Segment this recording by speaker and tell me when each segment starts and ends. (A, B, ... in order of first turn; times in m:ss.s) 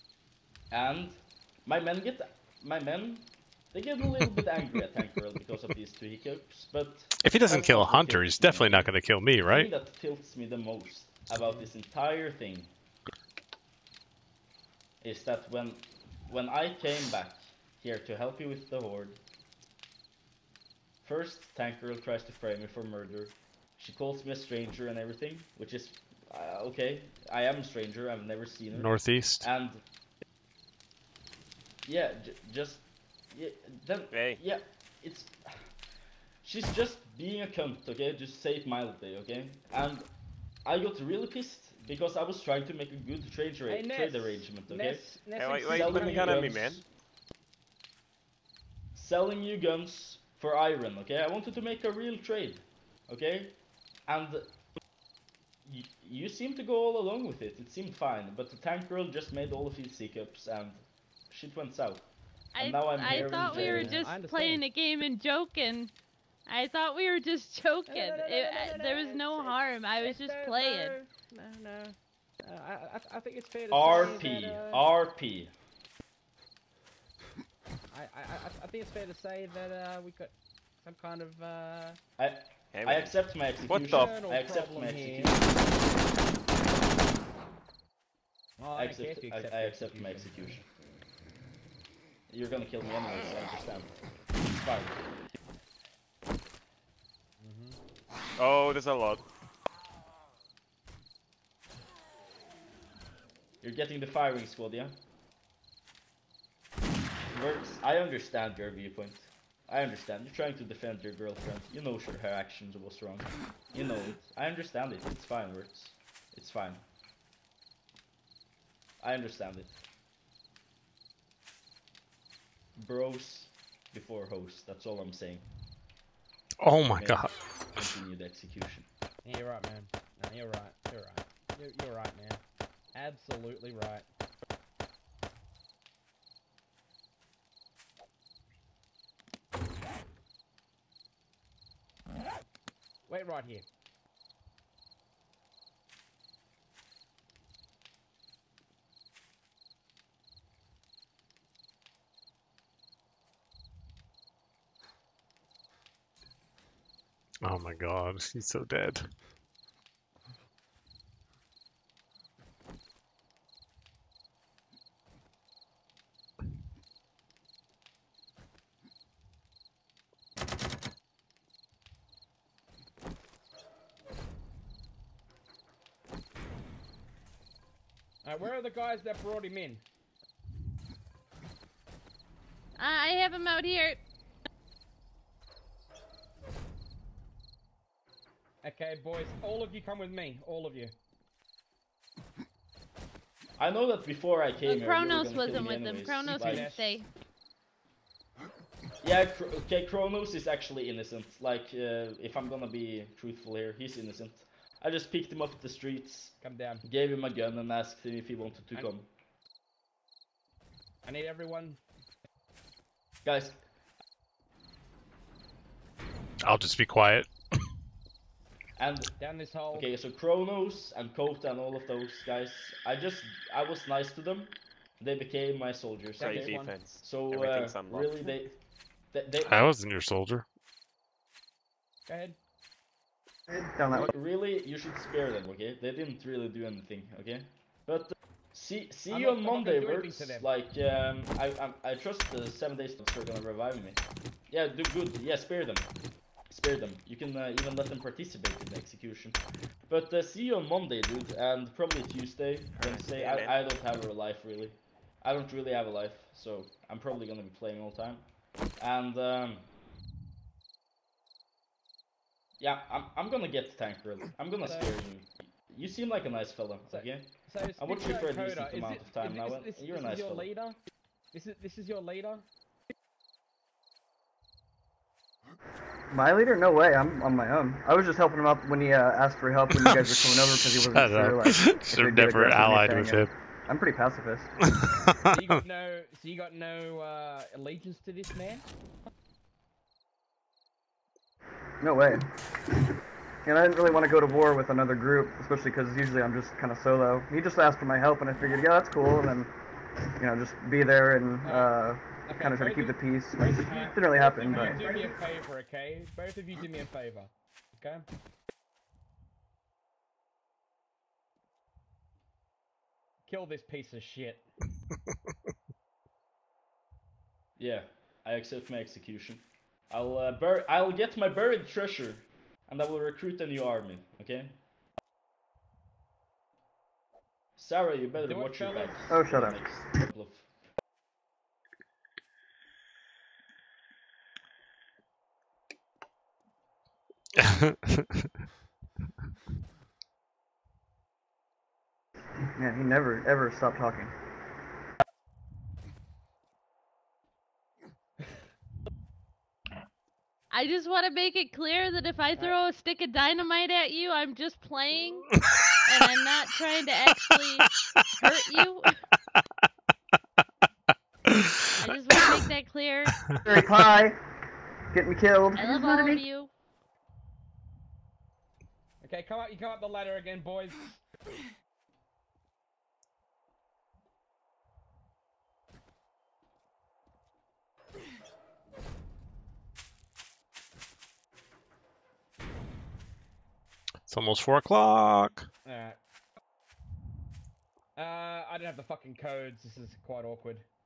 0:00.7-0:08.9 A
0:07.2-0:09.7 B
0:09.5-0:12.7 A
0:11.4-0:11.6 C
0:15.0-0:19.2 A
0:21.0-0:29.8 A
0:28.7-0:29.5 B
0:31.8-0:35.7 A
0:34.1-0:34.4 D
0:36.4-0:40.0 A
0:40.6-0:46.8 A
0:43.7-0:46.6 C
0:45.3-0:46.8 D
0:48.9-0:53.6 A
0:54.1-0:54.5 A
0:55.6-1:04.1 A
1:02.5-1:05.9 E
1:03.0-1:04.6 C
1:06.4-1:11.0 E
1:07.9-1:14.9 C
1:13.7-1:15.5 A
1:17.9-1:22.0 C
1:22.2-1:25.7 A
1:22.7-1:24.2 D
1:23.7-1:25.4 C
1:28.6-1:30.5 C
1:28.8-1:30.6 A
1:32.3-1:35.0 A
1:37.4-1:37.8 C
1:38.4-1:39.2 D
1:43.6-1:45.0 A
1:47.3-1:56.8 A
1:59.0-1:59.8 A
2:02.8-2:05.4 A
2:06.6-2:07.3 B
2:06.9-2:08.9 A
2:09.2-2:12.4 C
2:12.9-2:14.0 C
2:23.1-2:23.6 C
2:37.4-2:39.1 B
2:58.2-2:59.8 C
3:02.8-3:04.0 E
3:08.6-3:10.9 C
3:13.6-3:16.7 A
3:14.6-3:17.1 E
3:16.3-3:17.0 C
3:19.0-3:29.1 A
3:26.4-3:26.8 C
3:31.0-3:31.8 C
3:33.2-3:33.6 A
3:36.4-3:37.3 B
3:38.8-3:39.2 A
3:39.2-3:39.9 C
3:39.7-3:48.6 A
3:46.2-3:46.8 C
3:46.2-3:48.3 D
3:49.1-3:49.6 A
3:49.4-3:50.4 B
3:52.1-3:52.4 C
3:53.5-3:54.1 F
3:53.9-4:05.9 A
3:59.1-4:00.5 C
4:06.5-4:18.3 A
4:12.7-4:13.5 D
4:18.8-4:19.7 A
4:22.6-4:30.5 A
4:24.6-4:24.9 C
4:26.9-4:30.8 C
4:31.3-4:32.4 C
4:36.1-4:44.5 F
4:39.8-4:43.3 B
4:44.7-4:45.6 B
4:45.3-4:48.7 C
4:51.8-4:52.3 F
4:53.4-4:59.5 F
5:00.2-5:05.2 F
5:01.4-5:01.7 C
5:02.2-5:08.1 C
5:13.3-5:14.4 C
5:17.6-5:24.6 A
5:27.6-5:30.5 A
5:28.2-5:29.1 C
5:29.1-5:29.6 F
5:37.4-5:38.2 B
5:42.6-5:44.1 F
5:50.5-5:55.3 E
5:52.3-5:52.6 C
5:55.4-5:55.8 B
5:55.8-5:59.0 E
6:01.2-6:01.8 B
6:01.8-6:03.3 E
6:03.4-6:04.2 F
6:04.9-6:06.2 F
6:05.5-6:06.5 E
6:09.0-6:11.0 C
6:24.1-6:25.5 B
6:25.6-6:26.0 C
6:28.0-6:30.6 C